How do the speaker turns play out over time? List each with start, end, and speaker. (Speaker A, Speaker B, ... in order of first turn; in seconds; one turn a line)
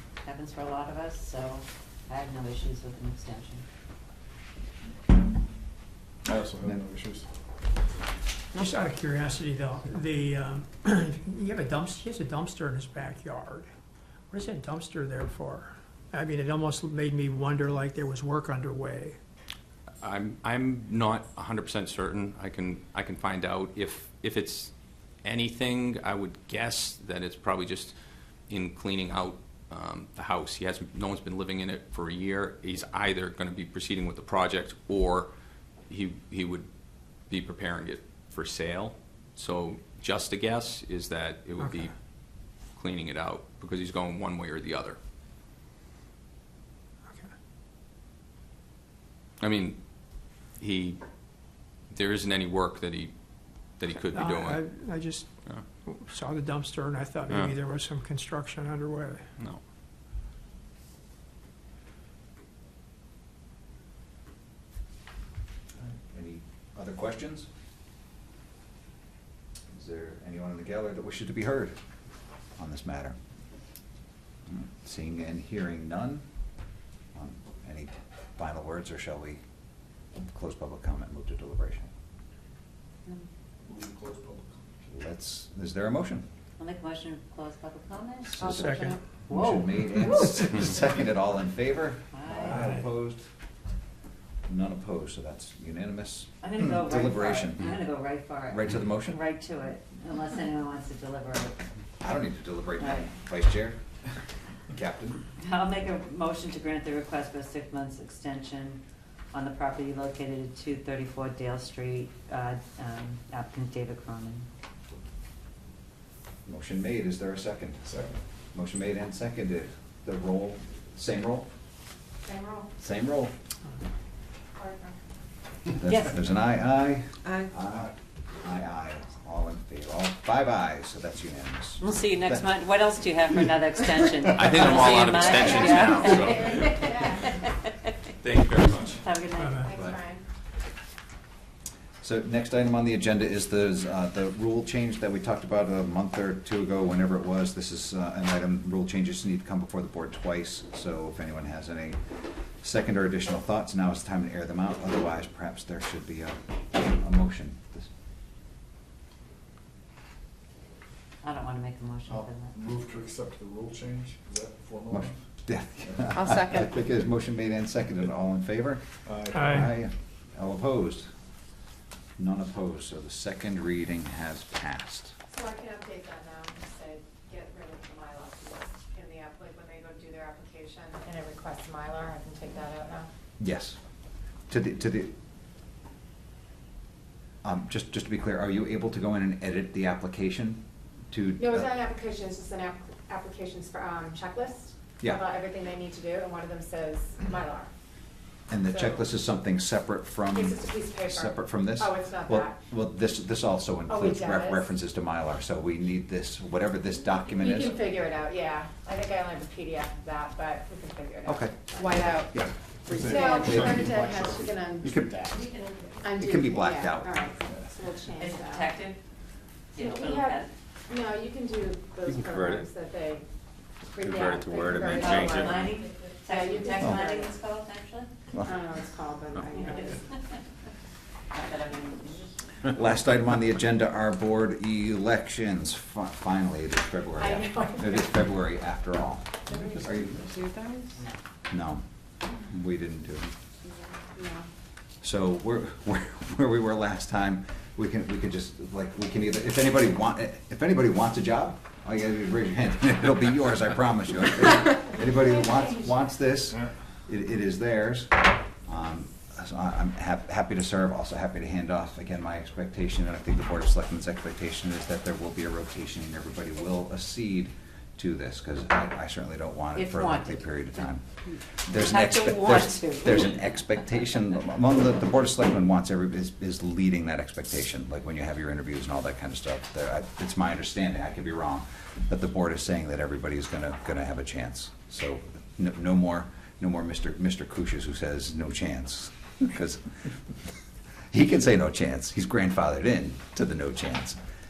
Speaker A: 0.2-3.6
Speaker B: 6.2-7.2
Speaker C: 8.5-13.7
Speaker C: 14.3-19.2
Speaker D: 20.0-24.7
Speaker D: 25.2-27.9
Speaker D: 28.5-35.3
Speaker D: 35.9-36.7
Speaker D: 37.3-41.9
Speaker D: 42.7-45.0
Speaker D: 49.4-49.8
Speaker D: 50.6-51.0
Speaker D: 51.9-53.1
Speaker D: 53.8-54.6
Speaker C: 54.1-55.3
Speaker C: 55.9-59.2
Speaker D: 57.3-57.6
Speaker E: 65.8-67.5
Speaker E: 69.7-71.8
Speaker E: 72.6-73.2
Speaker E: 74.5-76.2
Speaker E: 77.1-79.4
Speaker E: 80.1-81.9
Speaker B: 83.6-84.6
Speaker E: 84.9-86.2
Speaker A: 86.6-90.1
Speaker E: 88.3-93.2
Speaker C: 88.5-89.0
Speaker A: 92.1-92.8
Speaker E: 94.5-97.8
Speaker A: 96.4-101.6
Speaker E: 98.5-99.2
Speaker E: 102.0-103.8
Speaker A: 102.8-103.1
Speaker E: 104.7-105.2
Speaker A: 105.4-108.8
Speaker A: 109.3-114.5
Speaker E: 116.5-121.5
Speaker F: 122.2-122.7
Speaker E: 122.8-123.3
Speaker F: 124.6-125.0
Speaker E: 125.8-132.5
Speaker A: 125.8-126.2
Speaker A: 131.8-137.1
Speaker D: 134.4-137.1
Speaker F: 135.4-137.2
Speaker D: 138.2-139.0
Speaker A: 139.0-139.7
Speaker C: 139.3-139.7
Speaker F: 139.6-140.2
Speaker E: 139.7-140.0
Speaker E: 142.0-152.0
Speaker E: 152.6-157.9
Speaker A: 161.2-162.6
Speaker B: 162.1-165.1
Speaker E: 164.9-171.1
Speaker B: 169.1-169.7
Speaker C: 169.3-169.7
Speaker E: 172.2-175.1
Speaker F: 175.3-183.1
Speaker E: 183.4-183.8
Speaker E: 184.5-185.1
Speaker E: 187.4-191.7
Speaker F: 191.4-197.7
Speaker E: 198.5-207.8
Speaker F: 198.7-199.0
Speaker F: 200.3-202.6
Speaker F: 203.9-204.6
Speaker F: 207.3-215.4
Speaker E: 211.2-211.8
Speaker B: 212.8-215.1
Speaker E: 213.1-214.0
Speaker E: 214.8-215.4
Speaker F: 216.0-218.7
Speaker E: 216.2-217.3
Speaker A: 218.2-219.0
Speaker A: 219.7-220.5
Speaker F: 219.8-223.3
Speaker D: 222.0-222.7
Speaker F: 223.9-225.8
Speaker D: 224.0-225.7
Speaker A: 224.9-228.1
Speaker F: 226.2-227.3
Speaker F: 228.4-230.0
Speaker A: 229.5-230.0
Speaker A: 231.3-232.4
Speaker E: 232.7-240.2
Speaker F: 237.2-238.0
Speaker B: 239.5-240.3
Speaker E: 241.5-241.8
Speaker E: 242.3-243.3
Speaker F: 244.1-244.4
Speaker E: 245.0-271.0
Speaker A: 269.8-270.6
Speaker E: 271.6-289.8
Speaker A: 271.7-273.3
Speaker E: 291.1-294.2